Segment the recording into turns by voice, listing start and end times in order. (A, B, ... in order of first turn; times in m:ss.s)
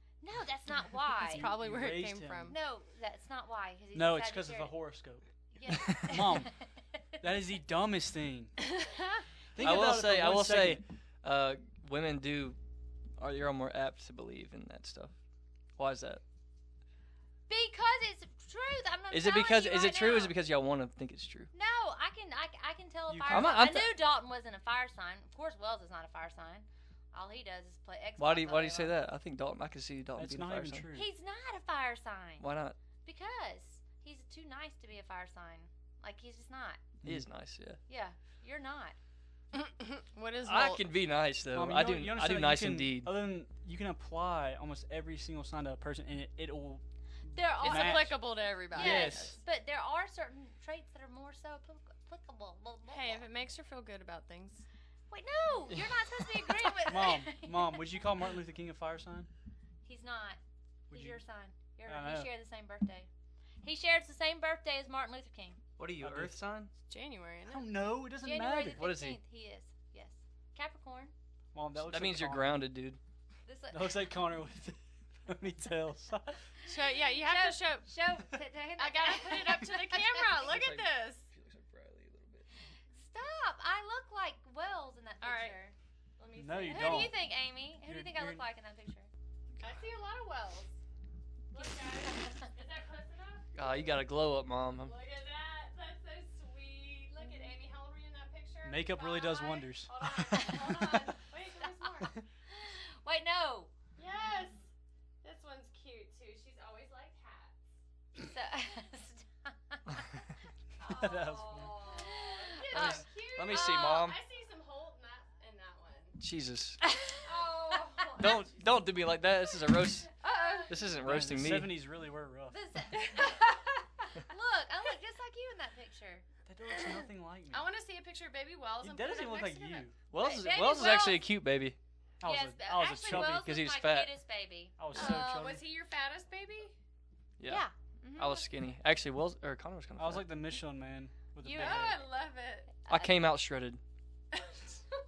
0:00.2-0:01.5 A
0:01.2-0:02.5 B
0:01.3-0:02.5 C
0:02.5-0:04.8 A
0:03.9-0:06.6 B
0:05.5-0:06.5 A
0:07.2-0:08.5 B
0:08.8-0:09.2 C
0:09.5-0:10.8 B
0:09.6-0:12.6 D
0:13.2-0:15.1 D
0:15.8-0:16.2 D
0:17.5-0:20.3 A
0:19.1-0:21.5 D
0:21.5-0:29.0 A
0:23.1-0:23.6 B
0:23.3-0:24.0 D
0:28.2-0:30.9 D
0:30.2-0:31.1 B
0:30.9-0:32.4 A
0:32.4-0:32.8 D
0:33.0-0:36.8 A
0:37.0-0:37.3 B
0:37.0-0:37.8 D
0:37.9-0:39.0 A
0:39.5-0:40.8 C
0:40.4-0:43.2 D
0:41.5-0:49.4 B
0:47.3-0:48.2 A
0:47.6-0:49.4 C
0:48.7-0:53.3 A
0:52.9-0:54.7 C
0:55.1-0:57.9 A
0:56.4-0:59.3 B
0:59.8-1:00.4 A
1:00.9-1:01.2 B
1:00.9-1:03.1 A
1:01.9-1:02.3 B
1:03.6-1:05.6 A
1:05.8-1:06.7 D
1:06.0-1:06.4 B
1:06.9-1:07.7 C
1:07.5-1:08.8 B
1:08.2-1:11.1 A
1:08.7-1:09.2 D
1:11.5-1:12.6 B
1:11.8-1:13.0 D
1:13.4-1:14.1 A
1:13.7-1:16.4 B
1:16.7-1:17.9 C
1:16.9-1:20.3 A
1:18.8-1:21.3 C
1:20.3-1:22.7 D
1:22.9-1:25.7 A
1:25.2-1:25.6 C
1:26.2-1:27.1 C
1:26.3-1:27.2 B
1:26.7-1:29.1 A
1:27.8-1:28.4 B
1:29.5-1:29.8 D
1:29.6-1:30.7 C
1:31.5-1:34.0 C
1:31.5-1:32.5 A
1:33.5-1:35.0 D
1:34.8-1:42.2 C
1:38.6-1:39.9 B
1:40.4-1:40.8 A
1:42.5-1:43.7 A
1:44.0-1:44.7 C
1:45.2-1:47.6 C
1:48.2-1:50.0 A
1:50.8-1:56.2 C
1:50.8-1:54.0 A
1:50.9-1:51.8 B
1:52.7-1:54.2 D
1:56.2-1:56.8 D
1:56.8-1:58.4 A
1:57.2-1:58.6 C
1:58.2-2:00.1 D
2:00.2-2:00.8 A
2:00.2-2:00.8 C
2:00.7-2:01.9 D
2:01.0-2:02.6 B
2:02.5-2:06.2 A
2:03.0-2:03.3 C
2:06.4-2:07.7 B
2:07.5-2:09.9 C
2:08.8-2:10.0 B
2:10.1-2:11.8 D
2:10.2-2:11.2 A
2:12.2-2:13.6 B
2:12.2-2:15.3 A
2:13.1-2:14.1 D
2:14.8-2:15.6 B
2:14.9-2:16.7 C
2:17.4-2:17.6 D
2:17.5-2:18.5 A
2:18.2-2:20.4 D
2:20.0-2:22.0 B
2:21.4-2:21.9 A
2:21.6-2:22.7 C
2:22.8-2:23.2 A
2:22.9-2:23.8 D
2:24.3-2:24.8 C